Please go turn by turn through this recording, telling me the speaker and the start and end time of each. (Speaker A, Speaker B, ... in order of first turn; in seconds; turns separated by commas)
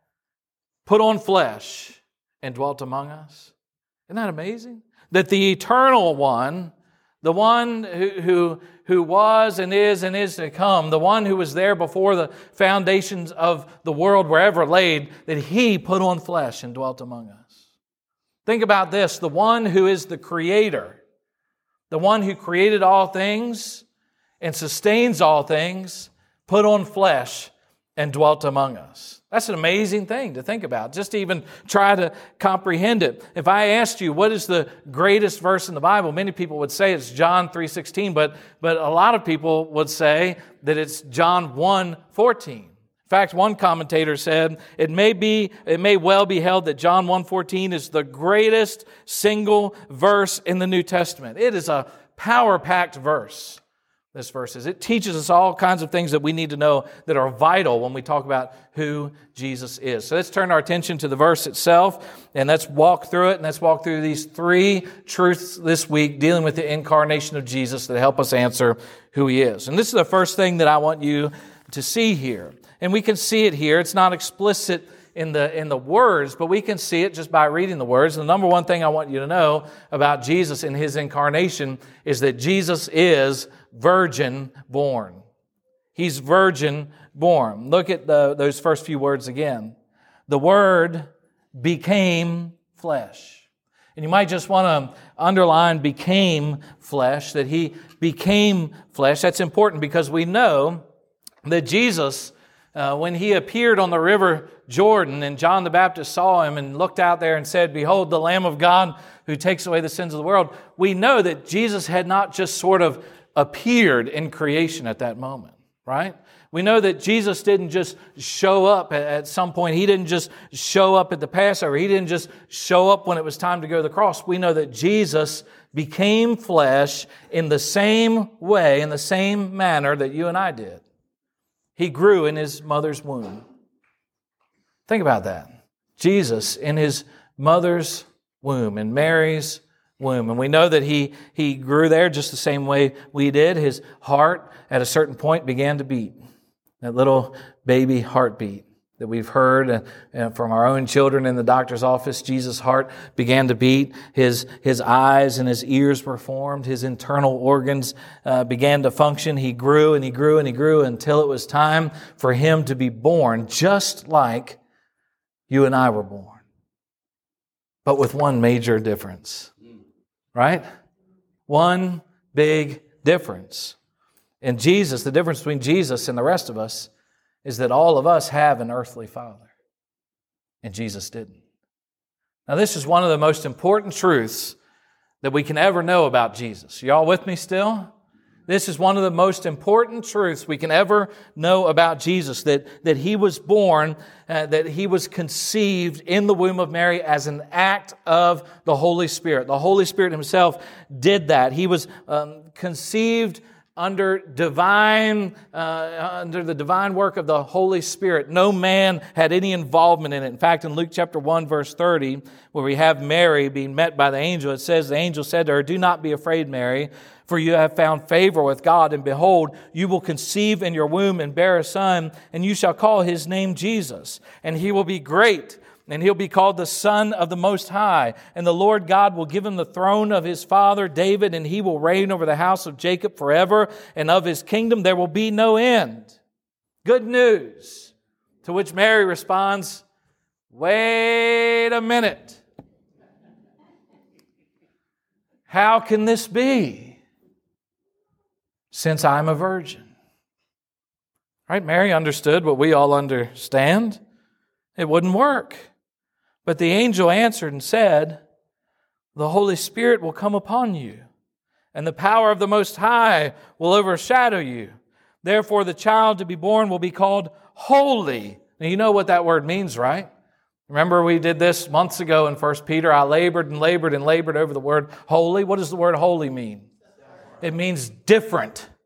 Speaker A: 0.8-3.5, Speaker A: 4.1-17.5, Speaker A: 18.4-21.0, Speaker A: 21.9-23.9, Speaker A: 24.4-53.6, Speaker A: 54.1-85.2, Speaker A: 85.9-89.8, Speaker A: 90.3-100.8, Speaker A: 101.4-130.8, Speaker A: 131.8-133.4, Speaker A: 134.9-146.2, Speaker A: 146.8-164.6, Speaker A: 165.5-166.4, Speaker A: 167.8-169.5, Speaker A: 170.3-170.6, Speaker A: 171.5-173.8, Speaker A: 174.4-176.9, Speaker A: 177.4-179.5, Speaker A: 180.6-181.4, Speaker A: 182.5-184.6, Speaker A: 185.2-187.9, Speaker A: 188.5-236.2, Speaker A: 236.8-239.8, Speaker A: 240.5-242.4, Speaker A: 245.5-247.0, Speaker A: 248.7-249.9, Speaker A: 251.5-254.0, Speaker A: 254.8-255.7, Speaker A: 256.4-258.2, Speaker A: 259.1-261.1, Speaker A: 261.7-270.1, Speaker A: 270.7-276.7, Speaker A: 277.4-278.7